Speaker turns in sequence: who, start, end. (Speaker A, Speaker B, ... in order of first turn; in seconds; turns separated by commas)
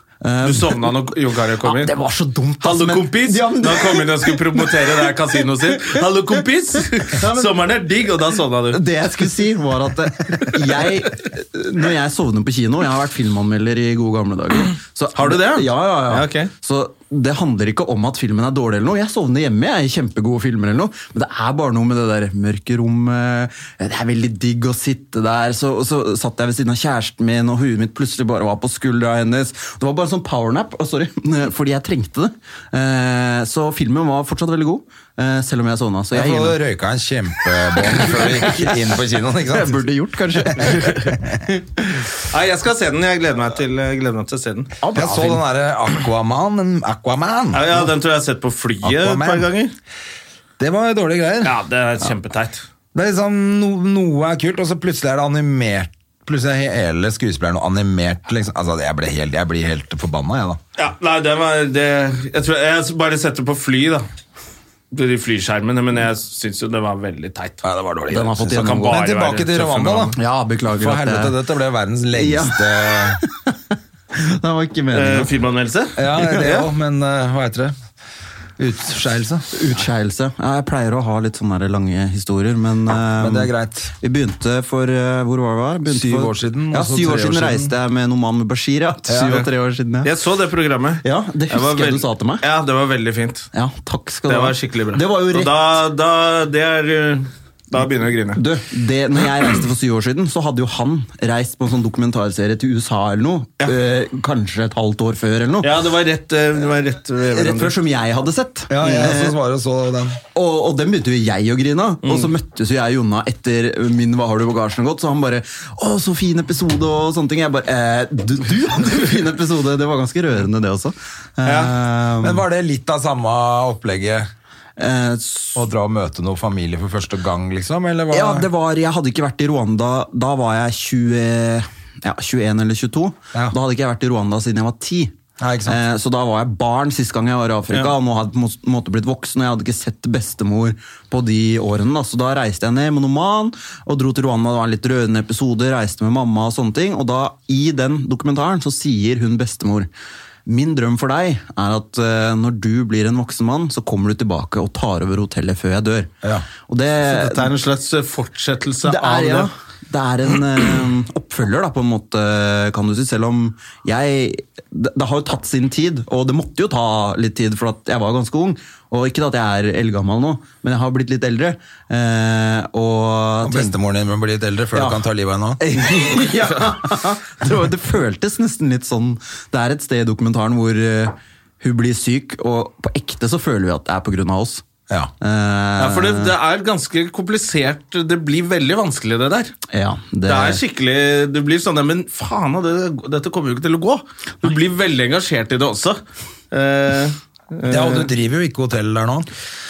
Speaker A: 0.2-0.9, Speaker B: 0.4-1.9, Speaker A: 1.6-6.0, Speaker B: 2.6-8.8, Speaker A: 7.0-7.7, Speaker A: 8.7-36.6, Speaker B: 15.1-16.5, Speaker C: 36.1-41.4, Speaker A: 37.8-42.1, Speaker B: 42.3-44.7, Speaker A: 44.8-45.4, Speaker C: 44.9-47.9, Speaker B: 47.5-49.7, Speaker C: 48.8-49.5, Speaker C: 50.6-51.5, Speaker B: 51.4-52.6, Speaker C: 52.9-60.6, Speaker B: 60.8-64.0, Speaker B: 64.9-67.6, Speaker C: 67.6-70.2, Speaker A: 68.1-69.0, Speaker B: 68.5-70.2, Speaker A: 70.2-71.3, Speaker C: 70.7-73.2, Speaker A: 72.1-75.3, Speaker B: 74.9-76.7, Speaker C: 76.0-77.7, Speaker C: 78.6-79.5, Speaker A: 79.5-90.1, Speaker C: 83.2-83.9, Speaker C: 85.9-87.7, Speaker C: 89.1-89.4, Speaker B: 90.0-93.5, Speaker A: 91.0-92.4, Speaker A: 93.5-95.5, Speaker B: 94.3-98.4, Speaker A: 98.3-105.7, Speaker B: 105.6-107.8, Speaker A: 107.3-109.4, Speaker C: 108.7-110.2, Speaker A: 110.3-122.4, Speaker B: 112.0-112.3, Speaker B: 121.4-121.7, Speaker C: 122.2-124.3, Speaker A: 124.8-125.7, Speaker C: 125.5-128.5, Speaker A: 128.1-149.9, Speaker C: 135.4-135.8, Speaker A: 150.5-156.1, Speaker C: 156.2-156.5, Speaker A: 156.7-157.5, Speaker B: 157.0-159.5, Speaker A: 158.8-173.7, Speaker C: 173.4-175.6, Speaker A: 174.7-175.0, Speaker A: 175.6-184.6, Speaker A: 185.2-186.3, Speaker B: 185.8-189.5, Speaker A: 189.7-190.6, Speaker B: 190.2-198.1, Speaker C: 197.7-199.3